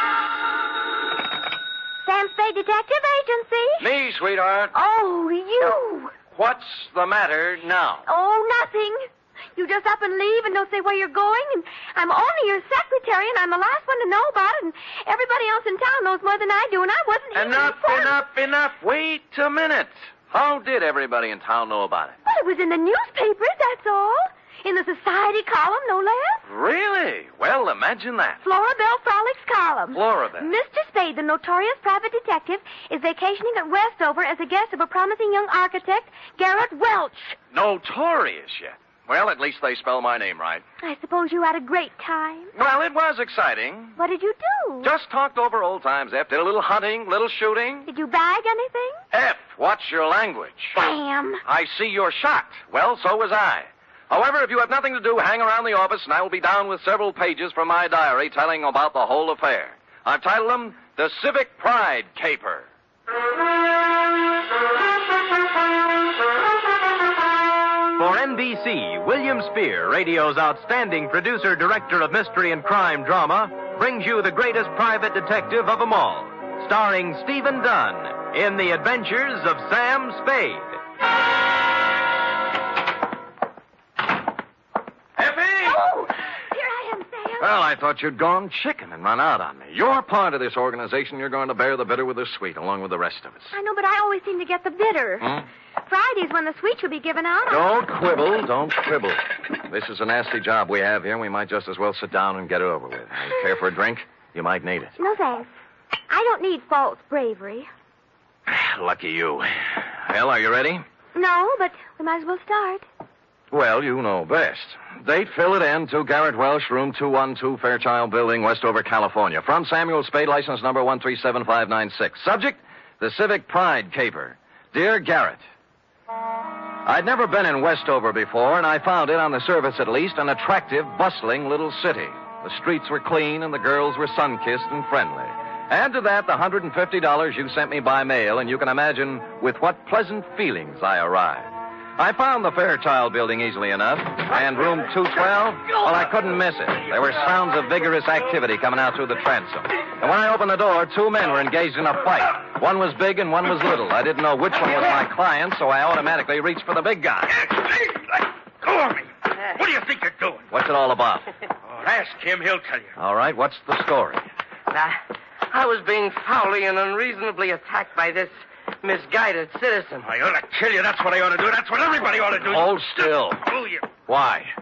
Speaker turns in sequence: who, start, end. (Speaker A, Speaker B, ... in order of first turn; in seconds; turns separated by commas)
Speaker A: 2.0-3.8, Speaker B: 3.8-4.7, Speaker A: 4.7-6.1, Speaker B: 6.3-8.0, Speaker A: 8.1-18.2, Speaker B: 17.3-22.1, Speaker A: 22.2-26.4, Speaker B: 26.4-28.4, Speaker A: 28.4-37.4, Speaker B: 29.9-30.5, Speaker B: 37.5-40.6, Speaker A: 40.8-42.5, Speaker B: 42.5-44.0, Speaker A: 44.0-44.9, Speaker B: 44.8-47.9, Speaker A: 47.9-49.0, Speaker B: 49.1-50.8, Speaker A: 50.7-51.4, Speaker B: 51.4-62.7, Speaker C: 68.0-80.8, Speaker B: 85.2-85.8, Speaker A: 85.6-87.5, Speaker B: 87.4-93.5, Speaker A: 93.5-97.7, Speaker B: 95.2-95.5, Speaker B: 97.5-105.0, Speaker A: 105.0-105.5, Speaker A: 106.1-107.7, Speaker B: 108.5-110.8, Speaker A: 111.1-112.8, Speaker B: 113.5-125.4, Speaker B: 126.8-157.3, Speaker D: 157.3-160.4, Speaker B: 160.5-161.3, Speaker D: 161.7-162.9, Speaker B: 162.9-164.2, Speaker E: 164.7-165.0, Speaker E: 165.5-170.1, Speaker D: 170.0-173.8, Speaker B: 172.4-173.4, Speaker B: 174.1-174.5